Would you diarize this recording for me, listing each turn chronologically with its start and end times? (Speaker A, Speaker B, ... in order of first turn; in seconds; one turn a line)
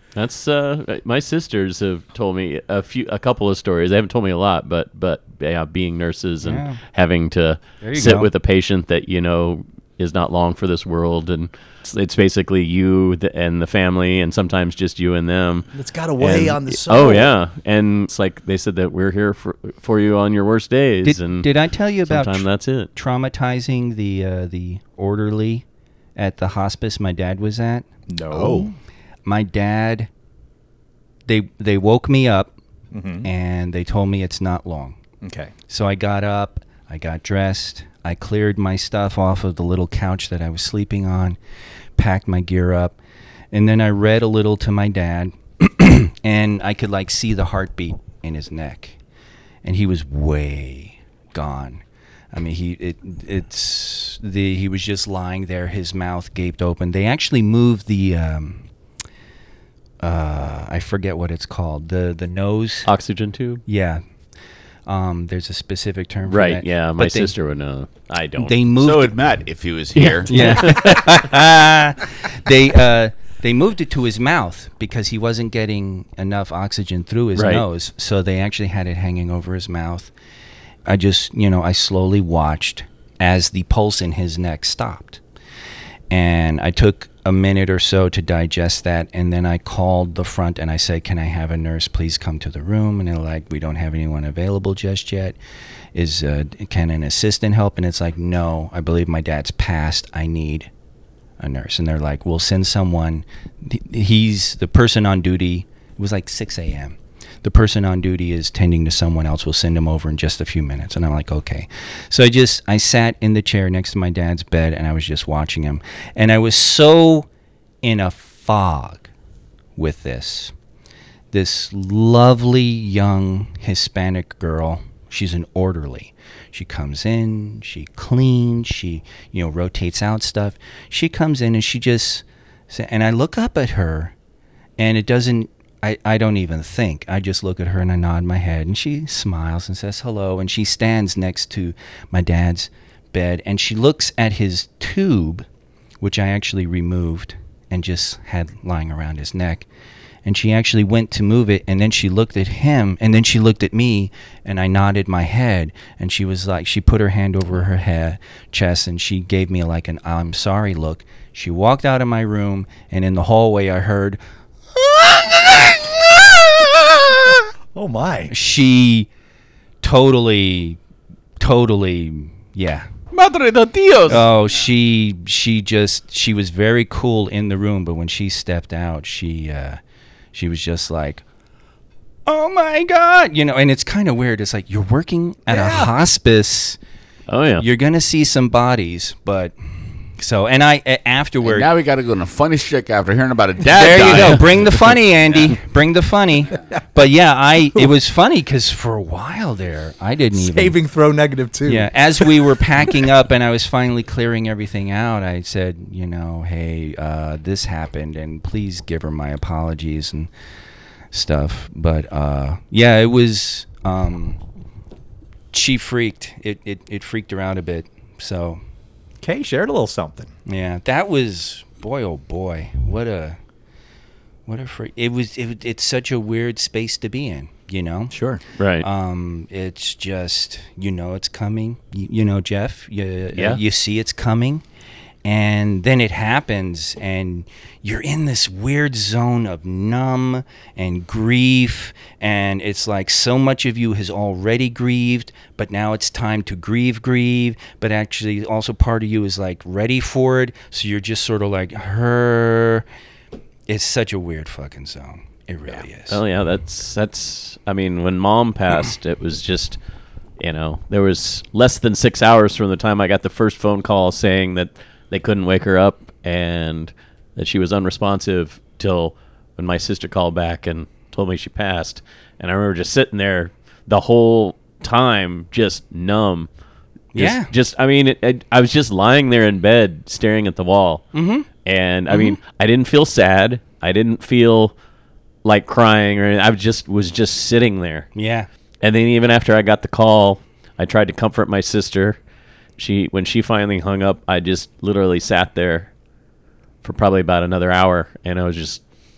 Speaker A: 0.1-15.7
Speaker B: 6.4-6.8
Speaker B: 7.8-8.3
Speaker C: 15.7-17.3
Speaker A: 16.2-21.5
Speaker B: 21.0-25.6
Speaker A: 22.1-22.9
Speaker B: 26.2-28.7
Speaker C: 28.1-28.7
Speaker B: 29.3-30.1
Speaker B: 31.3-32.5
Speaker C: 32.9-33.3
Speaker B: 33.2-35.0
Speaker C: 35.2-35.5
Speaker B: 35.7-41.4
Speaker B: 42.0-43.0
Speaker B: 43.5-49.0
Speaker B: 49.6-51.8
Speaker B: 52.3-58.7
Speaker B: 60.0-62.9
Speaker A: 62.9-63.6
Speaker B: 63.7-64.0
Speaker B: 64.9-67.3
Speaker A: 66.3-68.5
Speaker B: 68.4-69.2
Speaker D: 68.8-70.8
Speaker A: 70.0-71.2
Speaker B: 70.3-80.1
Speaker A: 77.4-77.6
Speaker B: 80.9-85.2
Speaker B: 86.1-95.4
Speaker B: 96.0-100.7
Speaker B: 101.4-117.3
Speaker B: 117.8-119.1
Speaker B: 119.8-120.5
Speaker B: 121.3-134.1
Speaker B: 134.8-145.5
Speaker B: 146.0-149.7
Speaker B: 150.2-164.2
Speaker C: 167.7-168.3
Speaker B: 168.3-169.1
Speaker B: 169.8-170.8
Speaker B: 171.4-172.9
Speaker D: 173.1-174.3
Speaker B: 174.1-179.8
Speaker B: 180.3-181.2
Speaker B: 182.3-186.8
Speaker C: 185.5-185.9
Speaker A: 187.3-187.7
Speaker B: 187.6-189.5
Speaker B: 190.2-191.7
Speaker D: 191.4-195.0
Speaker B: 193.7-200.8
Speaker C: 200.3-202.4
Speaker B: 201.7-210.3
Speaker B: 211.1-214.4
Speaker B: 215.5-218.6
Speaker C: 219.2-220.3
Speaker B: 220.5-223.4
Speaker B: 224.5-228.2
Speaker C: 228.1-228.4
Speaker A: 228.6-228.9
Speaker B: 228.8-234.6
Speaker B: 235.2-252.8
Speaker B: 253.7-256.2
Speaker A: 256.1-259.8
Speaker A: 260.4-276.5
Speaker B: 277.1-277.5
Speaker A: 277.2-281.1
Speaker B: 281.1-281.5
Speaker A: 281.6-284.8
Speaker B: 282.1-282.4
Speaker A: 285.4-288.1
Speaker B: 288.1-288.5
Speaker A: 288.8-292.2
Speaker A: 292.8-295.9
Speaker A: 296.8-298.8